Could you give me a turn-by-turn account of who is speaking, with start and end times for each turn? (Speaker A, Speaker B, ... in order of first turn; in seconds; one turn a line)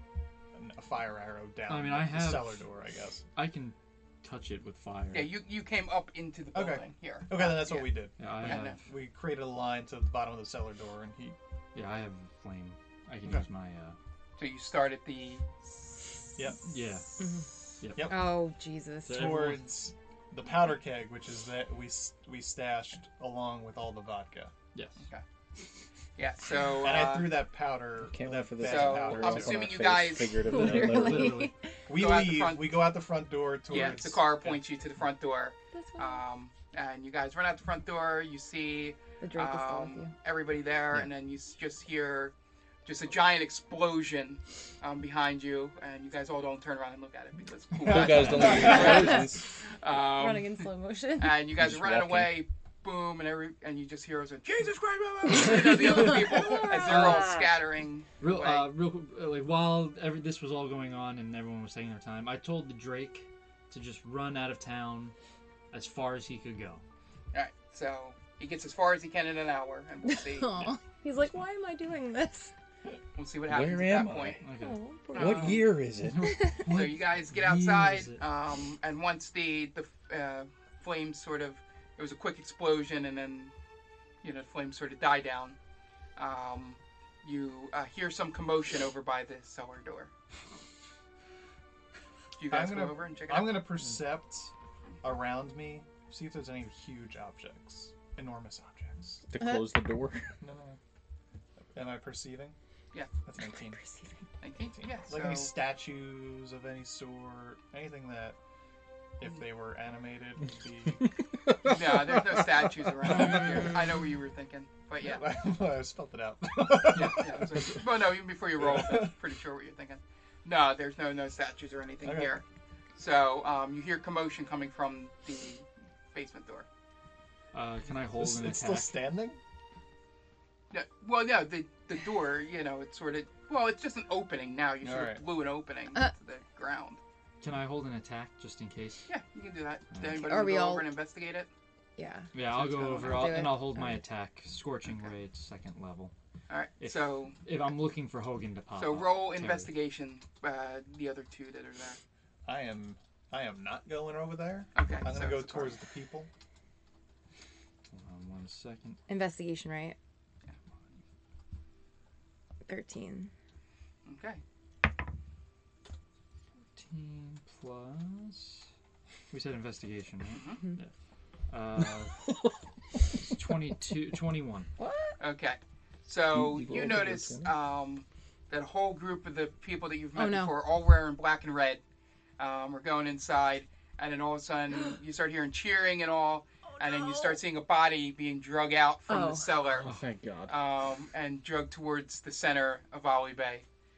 Speaker A: 0.5-3.2
Speaker B: 1.7-2.6
Speaker B: 3.4-5.3
Speaker C: 5.1-8.8
Speaker A: 6.5-11.4
Speaker B: 8.2-8.8
Speaker B: 11.7-13.9
Speaker C: 14.4-15.7
Speaker A: 16.4-16.7
Speaker B: 16.6-17.1
Speaker D: 17.2-17.5
Speaker B: 17.8-18.1
Speaker A: 17.9-18.4
Speaker D: 18.1-19.2
Speaker B: 19.1-19.6
Speaker A: 19.1-24.5
Speaker B: 24.7-25.0
Speaker C: 26.2-27.5
Speaker A: 26.8-29.8
Speaker E: 28.1-31.5
Speaker C: 28.6-30.4
Speaker D: 30.4-31.5
Speaker B: 30.4-31.5
Speaker A: 31.9-34.6
Speaker C: 31.9-32.9
Speaker C: 33.7-42.3
Speaker D: 35.7-36.2
Speaker D: 39.2-40.1
Speaker C: 42.9-58.7
Speaker A: 47.8-48.9
Speaker E: 47.8-49.5
Speaker D: 48.8-49.2
Speaker D: 50.1-51.4
Speaker E: 51.6-52.4
Speaker B: 55.4-56.3
Speaker D: 55.9-57.5
Speaker B: 56.9-57.1
Speaker B: 58.2-65.2
Speaker B: 65.7-66.8
Speaker C: 67.3-70.8
Speaker D: 70.0-72.5
Speaker C: 73.2-74.4
Speaker E: 73.5-74.4
Speaker B: 74.4-74.8
Speaker D: 74.6-75.6
Speaker C: 75.2-75.6
Speaker E: 75.2-76.3
Speaker B: 76.0-78.2
Speaker D: 76.3-76.6
Speaker C: 76.7-83.5
Speaker C: 84.2-85.6
Speaker C: 86.2-90.1
Speaker C: 92.4-93.7
Speaker A: 92.5-94.5
Speaker A: 95.0-99.3
Speaker E: 99.3-100.3
Speaker A: 100.4-100.8
Speaker A: 101.7-102.6
Speaker A: 103.2-103.8
Speaker D: 103.4-104.3
Speaker C: 104.4-105.5
Speaker A: 104.6-108.4
Speaker A: 109.2-111.1
Speaker E: 111.5-112.4
Speaker C: 111.7-115.2
Speaker A: 113.0-113.8
Speaker A: 115.0-119.2
Speaker C: 116.9-122.4
Speaker A: 122.0-122.4
Speaker C: 123.0-126.7
Speaker B: 127.5-129.0
Speaker A: 128.2-129.4
Speaker C: 130.7-137.0
Speaker A: 134.8-135.2
Speaker B: 137.4-139.1
Speaker C: 139.1-141.5
Speaker B: 139.9-140.2
Speaker D: 140.2-140.9
Speaker D: 142.0-144.0
Speaker B: 142.3-146.1
Speaker C: 142.8-143.3
Speaker C: 144.9-145.1
Speaker C: 146.5-147.4
Speaker B: 146.8-149.7
Speaker C: 148.8-152.0
Speaker A: 152.4-156.3
Speaker C: 154.7-155.8
Speaker B: 157.9-159.0
Speaker D: 159.1-160.0
Speaker D: 162.7-163.3
Speaker C: 164.1-164.4
Speaker B: 166.7-168.7
Speaker B: 169.3-170.9
Speaker C: 170.3-170.6
Speaker B: 171.5-172.3
Speaker E: 171.8-172.5
Speaker B: 173.2-174.7
Speaker D: 174.8-175.2
Speaker C: 175.2-181.8
Speaker E: 176.3-177.5
Speaker D: 180.2-180.6
Speaker C: 182.4-189.9
Speaker D: 189.1-189.5
Speaker E: 189.8-190.6
Speaker C: 190.5-193.7